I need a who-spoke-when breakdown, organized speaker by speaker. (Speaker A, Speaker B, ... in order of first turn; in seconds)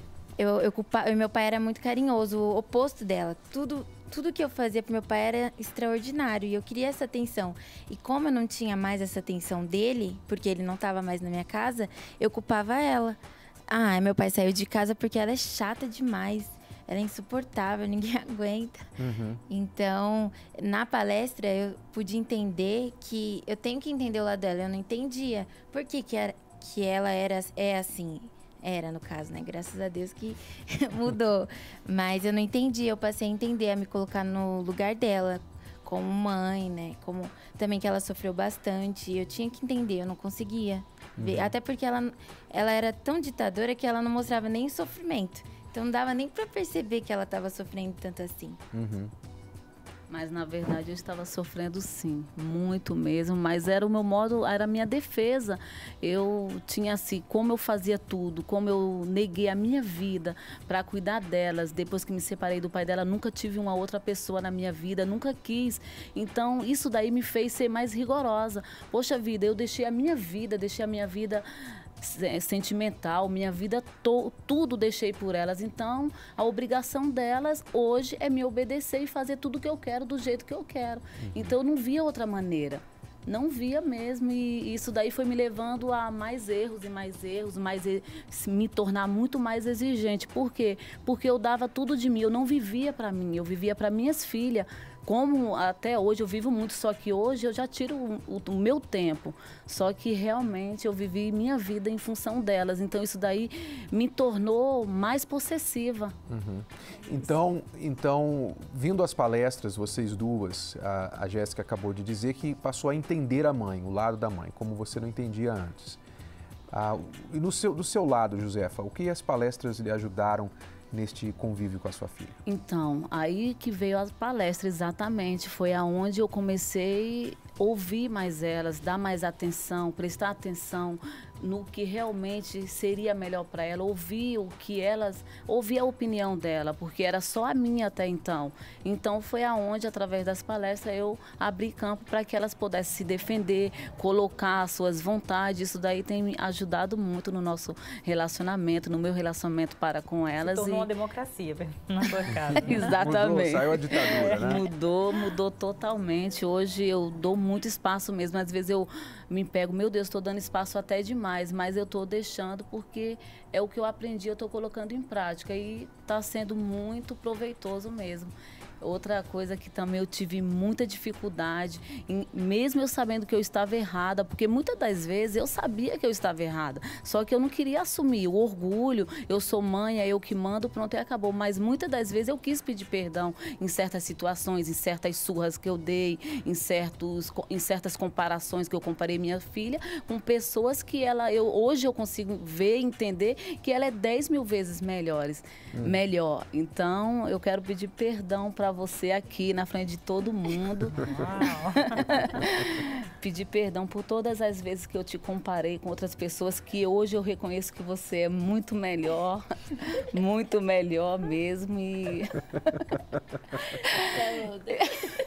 Speaker A: 0.4-18.9, 19.5-48.6, 214.1-214.8
Speaker B: 19.0-19.4, 41.2-41.5, 48.7-49.1, 81.2-81.5, 106.3-116.0, 116.7-122.4, 152.6-154.6
Speaker C: 50.1-71.5, 72.0-106.2, 122.5-150.9, 152.6-201.1, 201.8-209.4, 210.1-212.3
Speaker D: 150.4-153.0, 154.0-154.6, 200.9-202.2